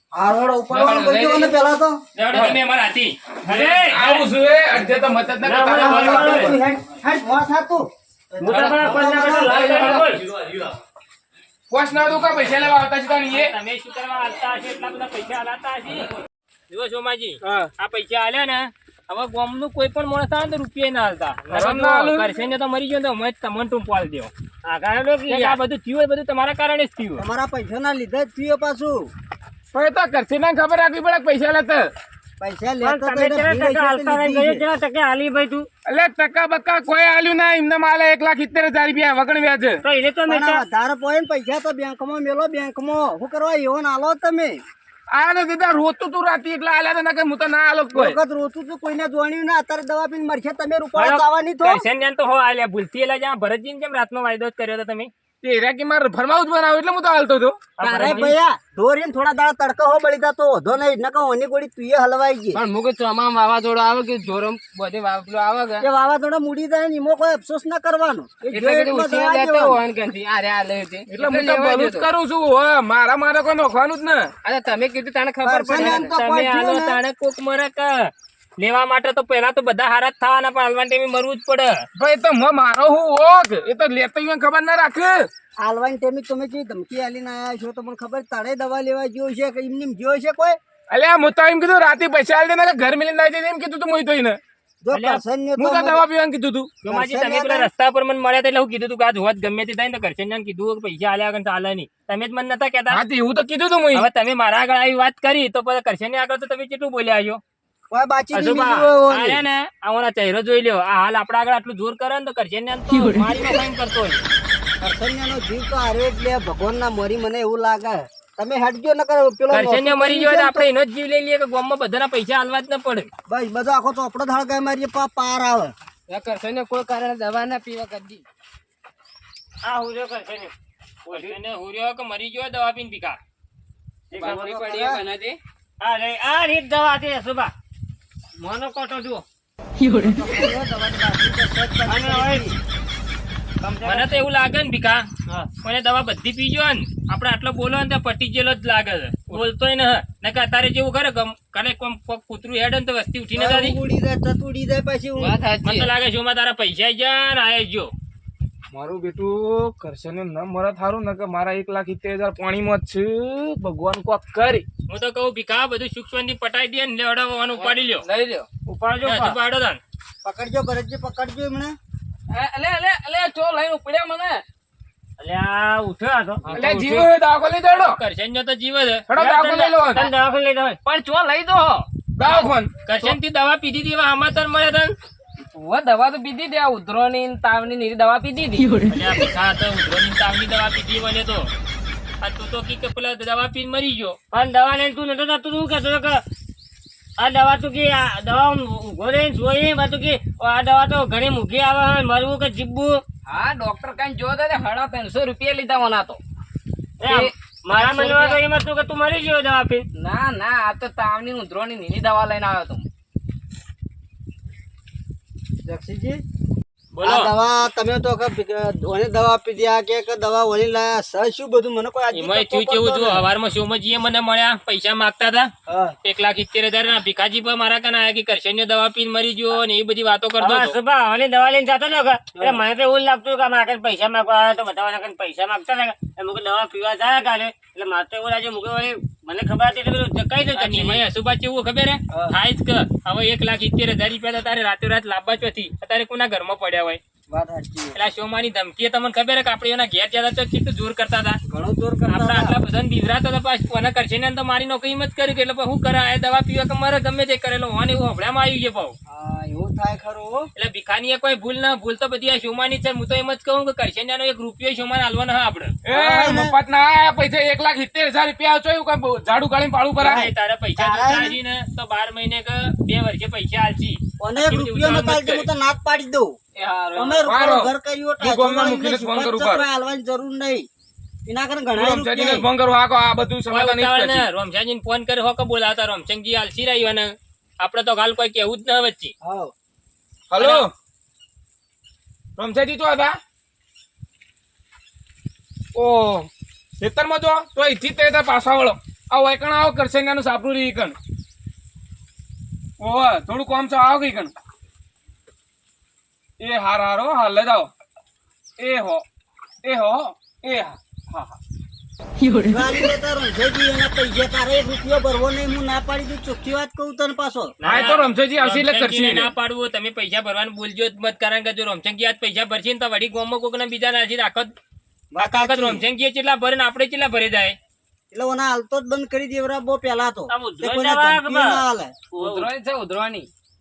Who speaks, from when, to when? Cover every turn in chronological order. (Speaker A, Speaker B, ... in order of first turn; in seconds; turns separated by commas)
Speaker A: 0.1-2.0, Speaker B: 0.7-1.5, Speaker C: 2.2-4.2, Speaker D: 2.3-2.6, Speaker D: 3.5-6.6, Speaker E: 5.4-6.6, Speaker A: 5.7-10.0, Speaker C: 6.1-6.5, Speaker E: 8.4-10.2, Speaker D: 8.5-8.9, Speaker D: 9.5-10.1, Speaker D: 11.7-13.5, Speaker C: 13.3-16.2, Speaker C: 16.7-24.3, Speaker D: 17.4-17.7, Speaker D: 21.5-22.4, Speaker E: 24.6-25.6, Speaker C: 25.3-27.2, Speaker A: 27.2-29.1, Speaker D: 29.7-31.9, Speaker A: 32.4-34.6, Speaker E: 32.8-35.7, Speaker D: 35.9-39.8, Speaker E: 39.9-40.6, Speaker A: 40.3-44.6, Speaker D: 45.1-48.2, Speaker A: 47.9-51.8, Speaker C: 51.0-55.1, Speaker D: 55.4-57.6, Speaker C: 57.8-58.4, Speaker A: 57.8-62.6, Speaker E: 58.0-58.3, Speaker B: 62.5-65.9, Speaker A: 65.8-69.8, Speaker B: 68.5-72.1, Speaker D: 71.1-74.3, Speaker B: 74.4-76.3, Speaker A: 75.4-77.0, Speaker C: 75.8-81.9, Speaker D: 82.0-85.3, Speaker A: 85.6-90.6, Speaker D: 90.9-94.4, Speaker A: 94.8-96.0, Speaker C: 94.9-95.2, Speaker D: 95.6-96.8, Speaker A: 96.8-97.7, Speaker C: 96.8-103.0, Speaker D: 102.9-104.1, Speaker C: 103.9-107.4, Speaker A: 107.9-109.4, Speaker C: 108.3-114.2, Speaker A: 114.8-120.7, Speaker C: 119.5-123.1, Speaker A: 123.3-125.7, Speaker B: 126.1-128.2, Speaker E: 129.6-130.5, Speaker E: 131.1-131.4, Speaker C: 131.1-133.2, Speaker E: 134.1-134.4, Speaker B: 134.2-135.4, Speaker A: 134.2-135.0, Speaker E: 135.8-137.5, Speaker E: 138.4-139.2, Speaker A: 139.9-142.6, Speaker E: 141.9-142.5, Speaker E: 143.6-144.2, Speaker C: 143.8-153.8, Speaker A: 153.4-155.4, Speaker B: 155.2-155.9, Speaker C: 155.6-157.9, Speaker D: 158.7-164.7, Speaker C: 164.9-168.1, Speaker B: 167.6-168.5, Speaker E: 168.7-169.4, Speaker C: 169.0-169.8, Speaker A: 170.2-171.8, Speaker B: 172.3-174.4, Speaker E: 175.2-176.5, Speaker D: 176.5-178.0, Speaker C: 176.6-177.1, Speaker C: 177.7-179.8, Speaker D: 179.1-180.0, Speaker E: 179.2-180.8, Speaker B: 180.8-181.9, Speaker D: 182.2-182.7, Speaker C: 182.9-184.9, Speaker B: 185.5-188.9, Speaker C: 188.9-191.5, Speaker C: 192.2-194.2, Speaker E: 194.3-196.2, Speaker E: 197.2-203.0, Speaker B: 203.3-206.2, Speaker E: 207.0-209.9, Speaker B: 207.1-208.4, Speaker B: 210.0-212.9, Speaker A: 215.7-216.2, Speaker C: 216.9-217.3, Speaker A: 217.0-223.2, Speaker C: 222.1-225.5, Speaker A: 225.7-225.9, Speaker C: 226.0-230.8, Speaker E: 230.4-241.0, Speaker C: 240.6-247.0, Speaker A: 247.3-248.0, Speaker C: 247.9-251.4, Speaker A: 251.5-252.6, Speaker C: 252.1-259.0, Speaker A: 259.1-260.5, Speaker C: 260.6-265.8, Speaker D: 265.9-270.3, Speaker A: 265.9-266.6, Speaker C: 270.0-275.5, Speaker A: 270.8-271.4, Speaker A: 274.2-276.4, Speaker B: 276.6-277.3, Speaker A: 277.0-280.7, Speaker D: 277.3-279.6, Speaker A: 281.3-282.5, Speaker D: 281.8-284.3, Speaker C: 283.5-289.1, Speaker A: 289.2-289.5, Speaker D: 290.3-290.7, Speaker C: 290.4-290.6, Speaker D: 292.4-293.2, Speaker D: 295.8-296.3, Speaker D: 296.8-300.9, Speaker D: 302.8-304.3, Speaker D: 306.4-307.7, Speaker D: 308.6-309.0, Speaker D: 309.6-311.4, Speaker A: 312.4-317.5, Speaker E: 317.6-318.0, Speaker C: 317.6-324.6, Speaker D: 317.6-319.3, Speaker A: 325.1-325.8, Speaker C: 325.2-327.6, Speaker A: 328.1-332.0, Speaker E: 330.3-331.6, Speaker B: 332.1-333.3, Speaker E: 332.2-332.5